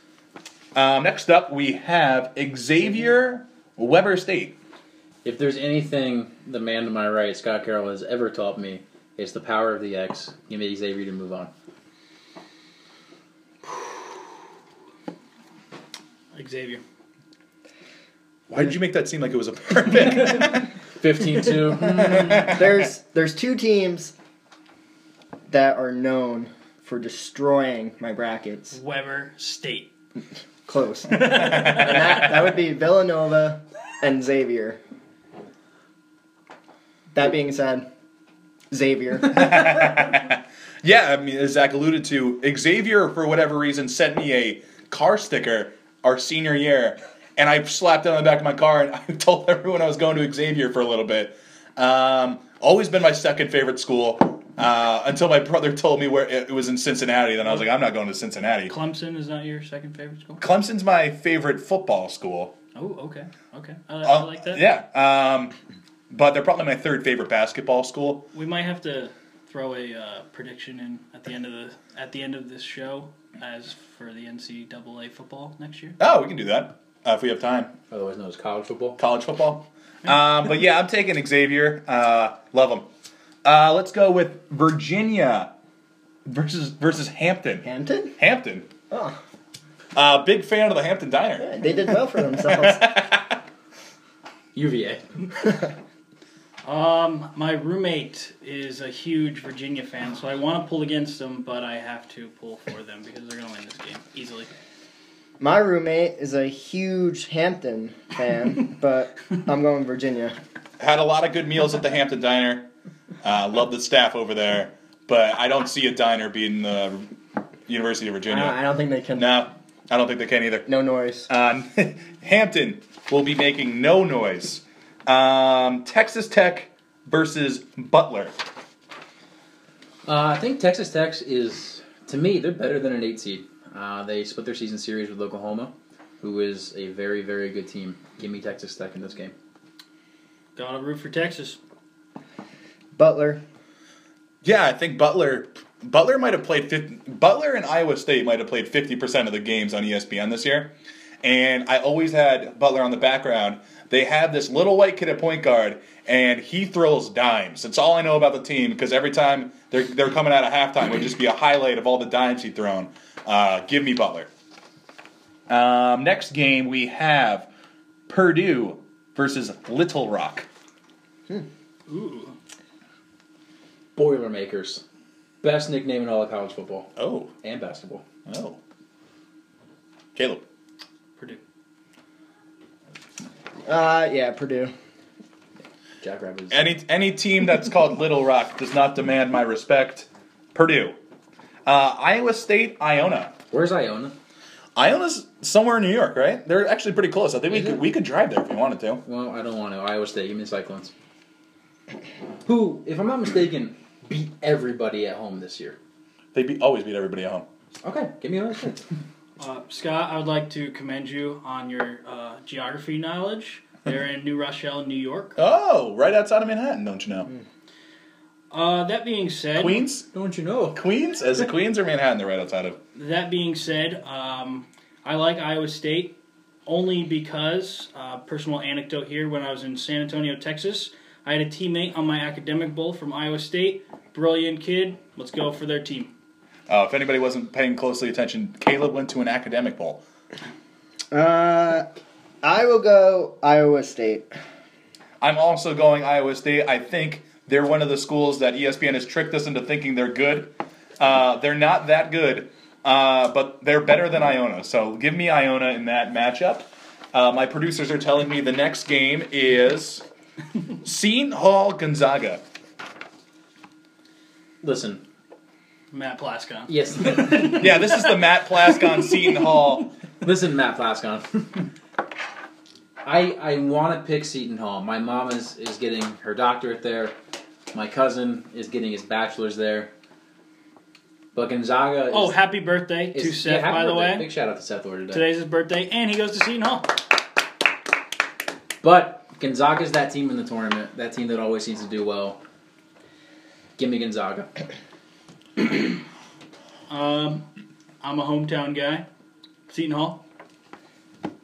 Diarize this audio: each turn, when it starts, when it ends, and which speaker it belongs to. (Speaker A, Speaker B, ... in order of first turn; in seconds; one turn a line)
Speaker A: 0.7-4.5
Speaker B: 5.2-11.5
Speaker C: 16.3-16.8
Speaker A: 18.5-20.7
Speaker B: 21.0-22.4
Speaker A: 22.0-22.6
Speaker D: 22.2-24.1
Speaker D: 25.5-28.8
Speaker C: 28.7-29.9
Speaker D: 30.6-34.8
Speaker C: 31.2-31.8
Speaker D: 37.1-37.9
Speaker D: 38.7-40.0
Speaker A: 39.2-58.7
Speaker C: 58.7-60.4
Speaker A: 60.4-62.5
Speaker C: 62.7-64.6
Speaker A: 64.0-65.5
Speaker A: 66.1-68.2
Speaker C: 68.3-76.0
Speaker A: 76.0-77.7
Speaker B: 77.9-79.0
Speaker A: 79.0-82.8
Speaker A: 83.4-85.5
Speaker A: 86.2-87.6
Speaker D: 87.6-88.1
Speaker A: 88.2-88.7
Speaker D: 88.9-89.2
Speaker A: 89.9-91.5
Speaker D: 91.4-92.9
Speaker A: 92.4-93.4
Speaker B: 94.5-95.0
Speaker C: 96.6-104.5
Speaker D: 105.4-110.3
Speaker A: 110.8-112.6
Speaker A: 113.2-117.1
Speaker A: 117.7-118.6
Speaker D: 118.3-119.3
Speaker A: 119.1-120.7
Speaker D: 120.7-121.3
Speaker A: 121.3-128.3
Speaker B: 130.1-139.3
Speaker C: 140.6-141.6
Speaker D: 142.9-143.4
Speaker A: 144.4-164.3
Speaker A: 165.5-167.5
Speaker A: 168.1-170.5
Speaker C: 171.9-172.3
Speaker B: 173.9-174.8
Speaker B: 175.4-176.9
Speaker A: 177.0-177.3
Speaker B: 177.4-178.0
Speaker A: 178.2-178.6
Speaker A: 180.1-180.4
Speaker D: 183.7-184.7
Speaker B: 186.0-186.7
Speaker A: 186.5-190.9
Speaker A: 191.7-193.3
Speaker B: 193.5-194.1
Speaker A: 194.8-199.0
Speaker B: 197.5-197.8
Speaker B: 199.0-200.9
Speaker B: 202.4-205.8
Speaker A: 206.3-207.4
Speaker B: 207.8-208.8
Speaker C: 209.4-215.4
Speaker A: 215.3-217.3
Speaker C: 218.5-219.8
Speaker A: 219.6-220.1
Speaker B: 220.1-220.8
Speaker A: 220.7-222.8
Speaker C: 222.9-236.1
Speaker A: 236.7-240.0
Speaker D: 241.1-241.8
Speaker D: 242.4-244.3
Speaker A: 245.2-260.0
Speaker A: 260.8-262.4
Speaker B: 264.6-265.0
Speaker C: 265.9-268.2
Speaker B: 266.7-267.6
Speaker A: 267.3-269.9
Speaker B: 270.2-271.6
Speaker B: 273.0-277.1
Speaker B: 277.7-279.9
Speaker B: 281.3-282.4
Speaker C: 282.1-284.3
Speaker B: 283.1-285.2
Speaker C: 285.1-287.0
Speaker B: 288.8-292.4
Speaker B: 293.8-294.5
Speaker C: 296.9-297.4
Speaker C: 298.0-299.1
Speaker C: 299.7-300.2